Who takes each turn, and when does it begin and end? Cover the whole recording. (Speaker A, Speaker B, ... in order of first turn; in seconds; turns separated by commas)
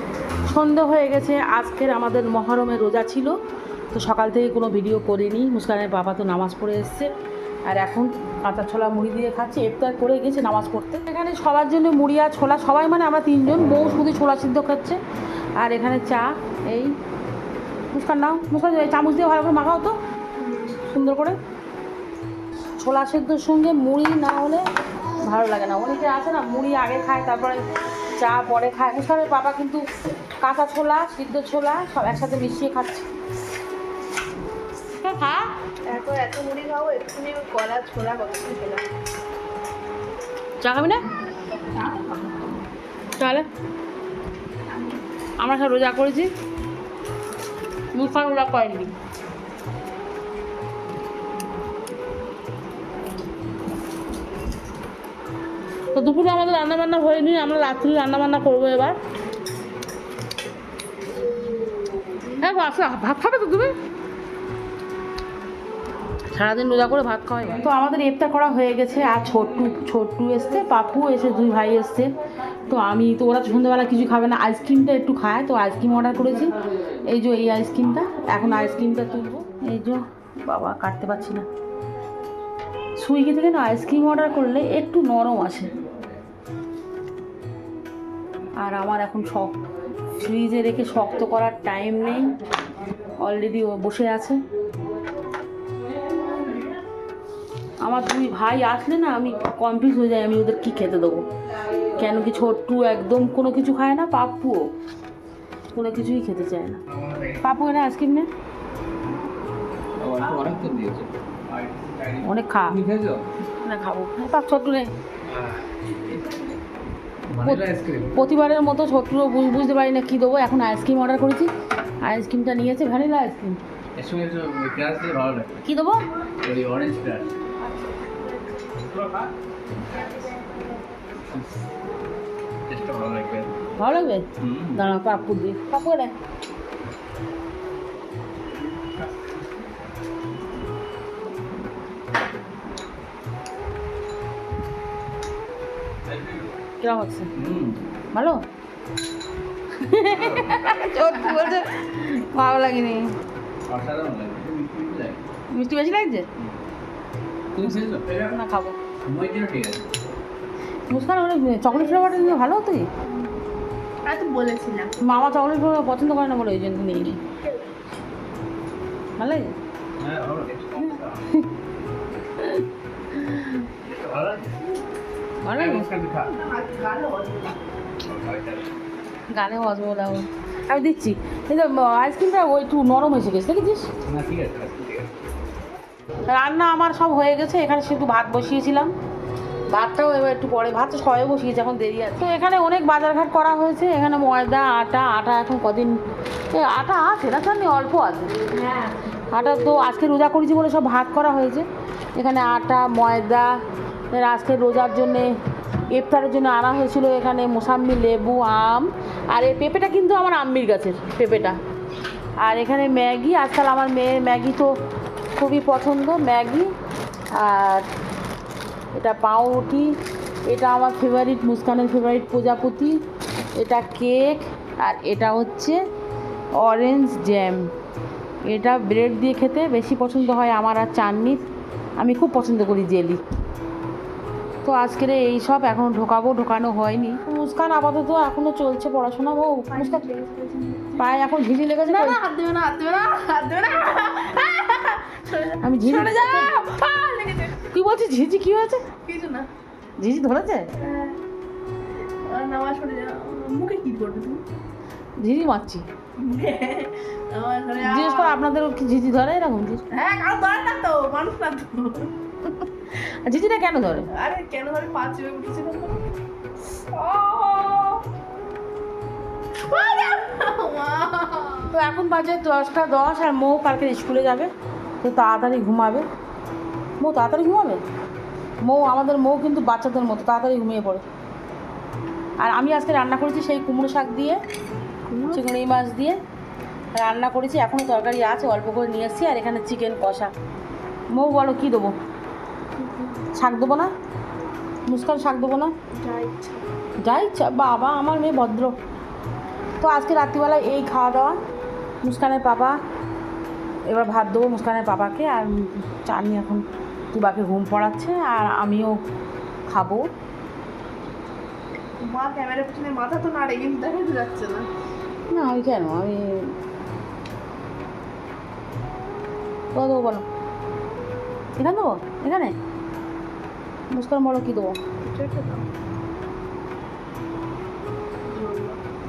Speaker A: 0.5-3.3, Speaker A: 3.9-7.1, Speaker A: 7.7-15.0, Speaker A: 15.6-16.9, Speaker A: 17.9-19.9, Speaker B: 20.4-20.8, Speaker A: 20.8-21.4, Speaker A: 22.8-24.6, Speaker A: 25.2-27.6, Speaker A: 28.2-29.9, Speaker A: 30.4-33.1, Speaker A: 35.0-35.5, Speaker B: 35.9-38.8, Speaker A: 40.6-41.0, Speaker A: 43.2-43.4, Speaker A: 45.4-46.3, Speaker A: 47.9-48.9, Speaker A: 55.9-59.0, Speaker A: 62.4-63.7, Speaker A: 66.3-72.1, Speaker A: 72.7-76.5, Speaker A: 77.1-81.4, Speaker A: 83.0-85.7, Speaker A: 88.6-89.5, Speaker A: 90.2-92.3, Speaker A: 93.2-94.4, Speaker A: 97.8-101.3, Speaker A: 101.9-104.7, Speaker A: 105.7-106.8, Speaker C: 106.9-107.4, Speaker A: 107.4-108.3, Speaker C: 110.0-113.3, Speaker A: 112.2-112.8, Speaker A: 113.6-114.9, Speaker C: 115.3-116.2, Speaker C: 117.3-118.2, Speaker A: 117.4-121.5, Speaker A: 122.0-123.6, Speaker C: 124.0-125.6, Speaker A: 125.6-126.0, Speaker C: 126.4-127.3, Speaker B: 128.0-128.7, Speaker C: 128.8-129.3, Speaker B: 129.9-130.8, Speaker C: 132.7-133.5, Speaker A: 133.8-136.1, Speaker C: 134.4-134.8, Speaker C: 138.7-139.3, Speaker C: 146.1-146.6, Speaker A: 146.8-147.3, Speaker C: 147.3-147.8, Speaker A: 148.1-148.4, Speaker A: 149.8-153.1, Speaker C: 150.1-150.8, Speaker C: 153.7-155.2, Speaker A: 155.5-156.3, Speaker C: 157.5-158.3, Speaker A: 158.2-158.8, Speaker C: 159.1-159.9, Speaker A: 160.9-162.9, Speaker B: 161.7-162.4, Speaker B: 163.1-163.3, Speaker B: 164.0-165.0, Speaker A: 165.0-167.2, Speaker A: 169.2-169.4, Speaker C: 170.0-171.3, Speaker C: 173.8-174.7, Speaker A: 175.4-175.9, Speaker C: 175.5-176.3, Speaker B: 176.2-177.6, Speaker C: 178.0-178.8, Speaker A: 179.3-183.9, Speaker C: 184.0-185.1, Speaker A: 186.3-188.9, Speaker A: 189.7-195.9, Speaker A: 196.5-198.4, Speaker B: 198.6-198.9, Speaker A: 199.3-201.7, Speaker A: 202.2-203.5, Speaker A: 204.1-205.3, Speaker A: 205.9-211.6, Speaker A: 212.4-214.7, Speaker A: 215.3-216.7, Speaker A: 217.3-217.9, Speaker A: 218.9-219.9, Speaker A: 220.5-222.9, Speaker A: 223.6-225.8, Speaker A: 226.6-227.7, Speaker A: 228.5-231.4, Speaker A: 232.0-233.2, Speaker A: 234.6-240.0, Speaker B: 239.7-241.1, Speaker A: 241.0-242.2, Speaker B: 241.8-247.7, Speaker A: 245.6-246.5, Speaker A: 247.7-248.8, Speaker B: 249.0-249.5, Speaker A: 250.0-250.7, Speaker B: 250.8-251.2, Speaker B: 252.2-254.4, Speaker A: 255.2-255.8, Speaker B: 256.2-258.4, Speaker A: 257.8-259.8, Speaker B: 259.9-262.1, Speaker A: 262.9-264.1, Speaker B: 264.1-266.0, Speaker B: 266.9-268.0, Speaker B: 269.6-271.7, Speaker A: 271.7-274.5, Speaker A: 275.0-276.0, Speaker A: 277.0-277.8, Speaker A: 278.6-281.0, Speaker A: 282.4-284.4, Speaker B: 285.1-285.4, Speaker A: 285.3-286.2, Speaker A: 286.9-290.3, Speaker A: 291.1-291.9, Speaker B: 292.8-293.2, Speaker A: 293.3-293.9, Speaker A: 294.9-295.7, Speaker B: 295.9-296.6, Speaker A: 297.0-298.7, Speaker A: 299.8-301.4, Speaker A: 302.0-302.8, Speaker A: 303.9-308.9, Speaker A: 309.7-310.0, Speaker B: 312.0-314.7, Speaker A: 315.3-316.5, Speaker A: 319.7-320.2, Speaker A: 321.6-322.6, Speaker A: 323.9-324.8, Speaker B: 325.0-325.6, Speaker B: 328.3-328.8